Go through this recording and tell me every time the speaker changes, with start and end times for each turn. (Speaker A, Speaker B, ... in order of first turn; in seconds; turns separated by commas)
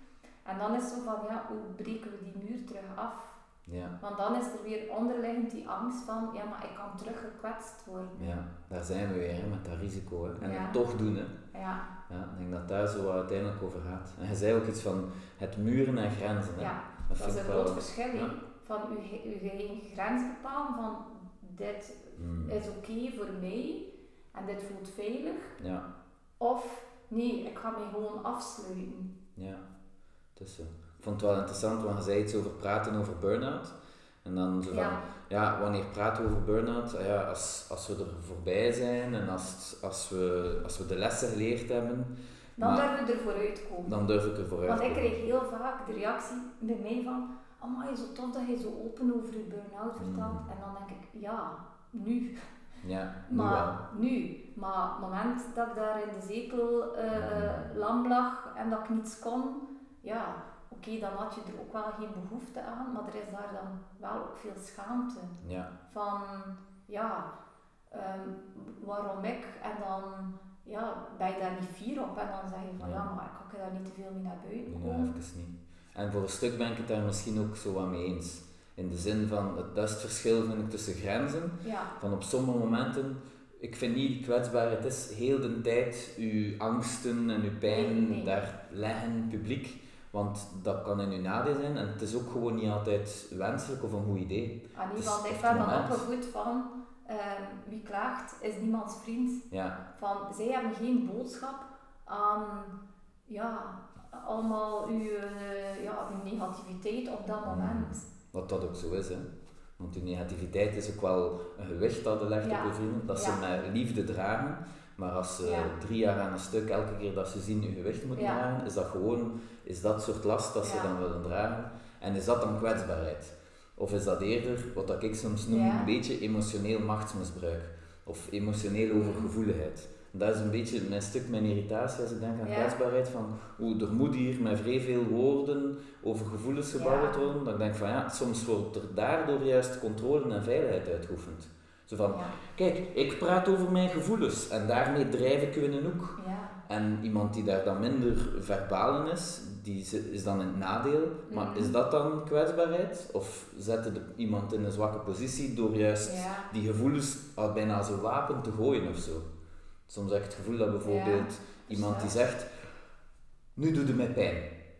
Speaker A: 0.4-3.4, Speaker B: 3.7-3.9, Speaker A: 4.0-8.3, Speaker B: 8.2-11.3, Speaker A: 10.4-10.8, Speaker A: 11.5-11.9, Speaker B: 12.1-18.3, Speaker A: 16.6-25.5, Speaker B: 22.1-22.6, Speaker B: 25.6-25.8, Speaker A: 26.4-29.1, Speaker B: 29.4-29.6, Speaker B: 30.4-42.9, Speaker A: 34.7-35.0, Speaker A: 42.6-43.9, Speaker B: 43.8-45.2, Speaker A: 44.6-52.4, Speaker B: 50.0-50.4, Speaker B: 52.8-53.8, Speaker A: 53.3-67.3, Speaker B: 57.1-57.7, Speaker B: 65.4-65.7, Speaker A: 67.9-75.1, Speaker B: 74.7-96.0, Speaker A: 81.6-81.9, Speaker A: 87.6-88.3, Speaker A: 94.7-102.7, Speaker B: 99.5-99.8, Speaker A: 103.2-108.1, Speaker B: 107.5-109.3, Speaker B: 109.8-159.2, Speaker A: 112.4-113.4, Speaker A: 115.4-115.7, Speaker A: 118.1-118.4, Speaker A: 120.6-120.9, Speaker A: 125.5-125.9, Speaker A: 129.0-129.3, Speaker A: 132.4-132.7, Speaker A: 136.7-137.2, Speaker A: 142.1-142.4, Speaker A: 146.2-146.6, Speaker A: 151.3-151.7, Speaker A: 156.0-156.5, Speaker B: 159.9-162.5, Speaker A: 160.8-162.1, Speaker B: 163.6-164.5